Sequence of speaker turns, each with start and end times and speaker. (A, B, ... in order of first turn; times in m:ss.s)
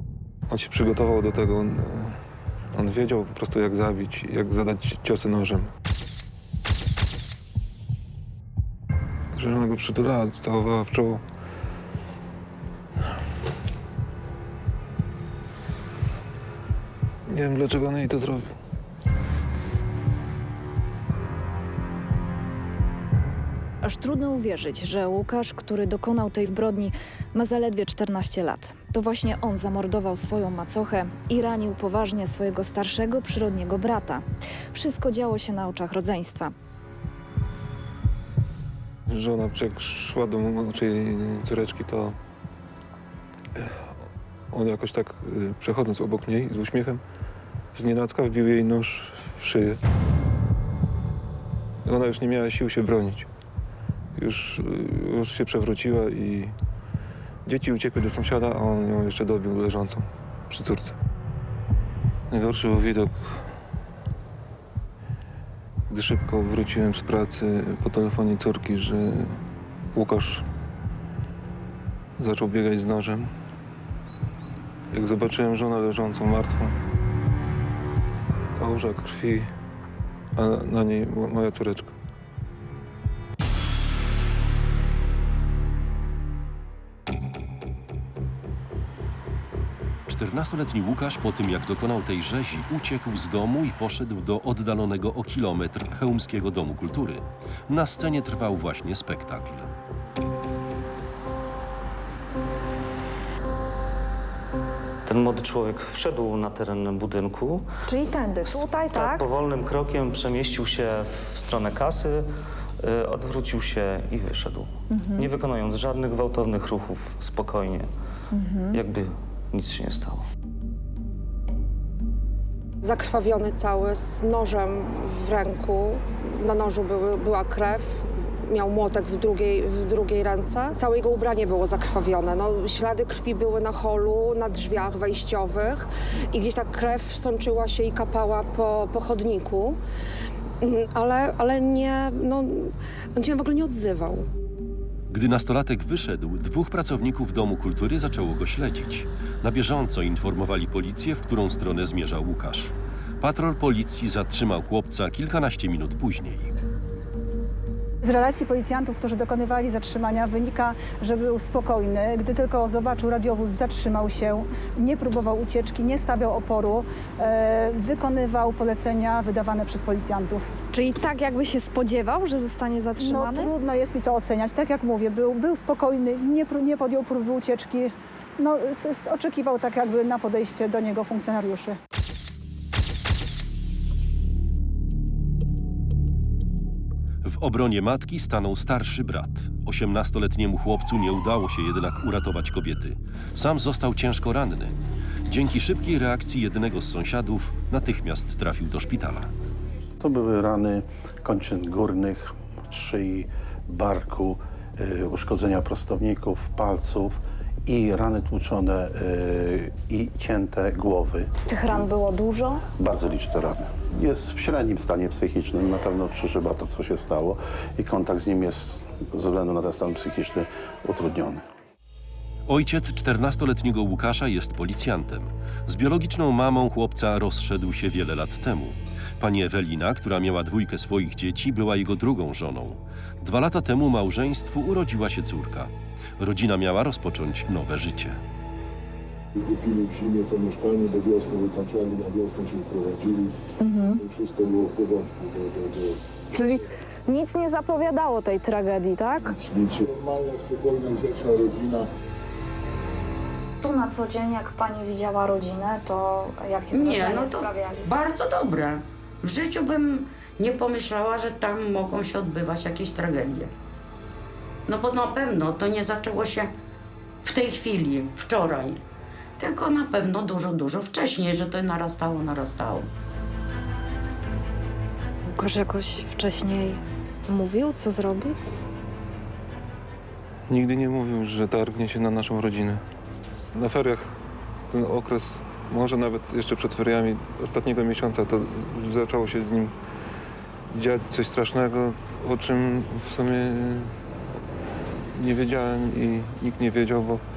0:00.5-0:02.2 A
0:02.7-0:05.7 A
0:09.3-0:11.2 A
0:17.3-0:18.4 A
0:23.8-0:36.5 B
0:39.1-0:42.2 A
0:43.5-0:43.9 A
0:44.5-0:47.0 A
0:47.7-0:49.8 A
0:51.8-0:53.3 A
0:54.2-0:56.5 A
0:57.4-1:01.0 A
1:02.3-1:03.4 A
1:05.9-1:09.4 A
1:09.9-1:10.5 A
1:12.2-1:13.3 A
1:14.9-1:16.7 A
1:18.6-1:19.5 A
1:20.3-1:21.9 A
1:30.1-1:39.7 C
1:45.0-1:52.3 D
1:47.9-1:49.2 B
1:52.8-1:57.9 D
1:58.4-1:58.7 B
1:58.7-2:00.3 D
2:02.8-2:19.8 E
2:20.6-2:24.3 E
2:25.1-2:36.5 C
2:38.0-2:50.5 F
2:50.7-2:53.5 B
2:53.0-3:01.8 F
3:07.2-3:14.7 C
3:15.3-3:19.3 C
3:20.0-3:31.9 G
3:31.5-3:32.6 B
3:32.7-3:41.4 G
3:42.5-3:58.2 C
3:59.4-4:06.0 H
4:03.6-4:04.0 B
4:06.3-4:09.4 B
4:09.4-4:11.9 H
4:13.6-4:17.8 B
4:16.7-4:23.5 I
4:24.6-4:26.5 I
4:27.2-4:28.8 I
4:29.4-4:32.9 I
4:35.3-4:38.4 B
4:40.5-4:42.8 A
4:43.5-4:44.2 A
4:44.7-4:49.7 A
4:50.7-4:53.9 A
4:55.1-4:57.2 A